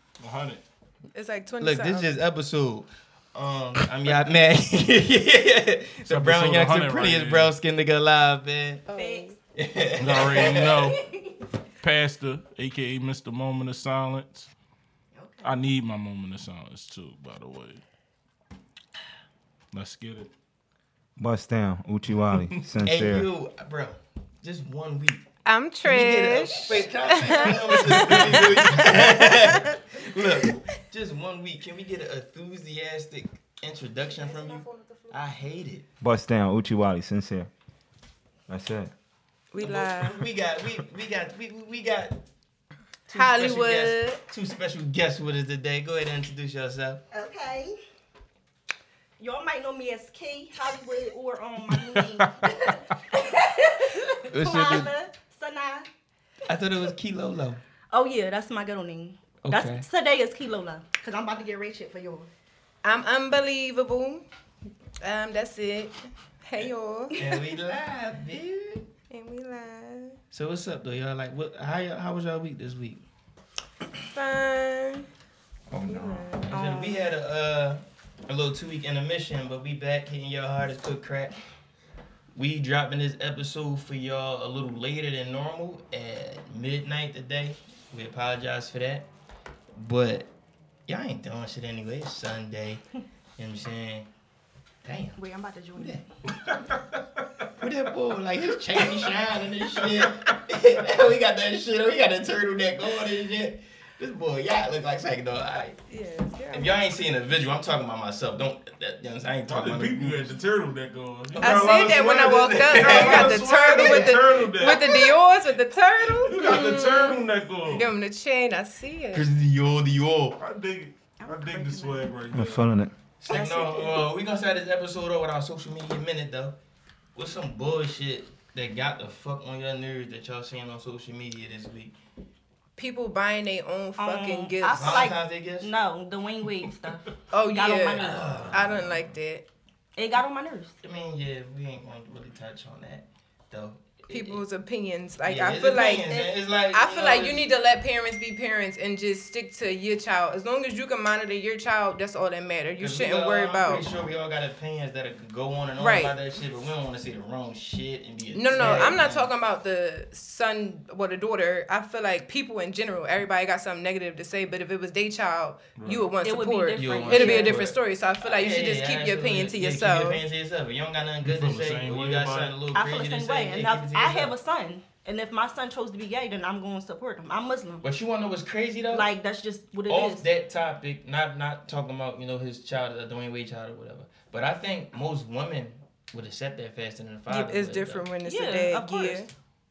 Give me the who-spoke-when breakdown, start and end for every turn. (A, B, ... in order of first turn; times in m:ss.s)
0:00.2-0:00.6 A
0:01.1-0:02.1 B
0:01.6-0:08.8 C
0:06.1-0:07.5 A
0:08.9-0:09.4 B
0:08.9-0:09.3 D
0:09.6-0:10.9 C
0:10.0-0:11.0 A
0:10.4-0:11.4 D
0:11.8-0:14.5 A
0:15.2-0:15.5 D
0:15.4-0:17.8 A
0:19.7-0:20.3 A
0:21.2-0:23.3 E
0:22.3-0:22.6 A
0:22.8-0:25.3 C
0:25.4-0:29.8 B
0:25.8-0:35.8 C
0:34.2-0:35.2 B
0:36.0-0:37.5 E
0:38.5-0:38.9 E
0:39.5-0:40.2 B
0:39.6-0:42.2 C
0:43.1-0:47.0 C
0:43.1-0:44.2 B
0:47.1-0:47.8 D
0:49.2-0:55.9 D
0:51.7-0:52.3 A
0:54.3-0:54.9 C
0:56.5-0:57.6 C
0:57.9-1:02.3 D
0:59.4-0:59.8 C
1:02.8-1:04.2 B
1:05.0-1:07.2 B
1:06.6-1:08.8 C
1:09.1-1:10.2 B
1:10.3-1:13.0 C
1:14.0-1:15.0 B
1:15.7-1:16.3 E
1:15.8-1:16.5 B
1:16.5-1:21.3 C
1:16.5-1:17.1 D
1:22.3-1:29.1 C
1:29.7-1:30.3 C
1:30.9-1:32.8 C
1:33.4-1:34.1 C
1:34.8-1:35.2 C
1:35.2-1:36.0 D
1:35.8-1:36.0 C
1:37.6-1:45.8 C
1:45.9-1:46.8 B
1:46.5-1:50.3 C
1:49.5-1:55.0 A
1:51.3-1:54.8 C
1:51.4-1:59.3 B
1:56.2-1:57.9 A
1:59.1-2:00.4 C
2:00.4-2:02.7 A
2:01.2-2:02.1 D
2:02.3-2:02.9 E
2:03.2-2:06.6 C
2:03.3-2:03.7 A
2:07.1-2:11.9 C
2:12.8-2:15.1 B
2:14.0-2:18.5 D
2:14.7-2:15.7 C
2:17.3-2:19.4 B
2:17.9-2:19.1 C
2:20.0-2:20.8 D
2:20.8-2:24.4 C
2:24.1-2:33.8 B
2:25.2-2:27.5 C
2:32.8-2:39.3 C
2:35.8-2:36.1 B
2:38.3-2:50.2 B
2:45.8-2:46.1 A
2:46.2-2:47.7 D
2:46.7-2:54.3 C
2:51.2-2:52.5 A
2:52.7-2:57.8 D
2:57.8-2:59.1 C
2:58.9-3:00.2 D
2:59.9-3:08.1 C
3:07.3-3:09.3 B
3:08.2-3:09.2 D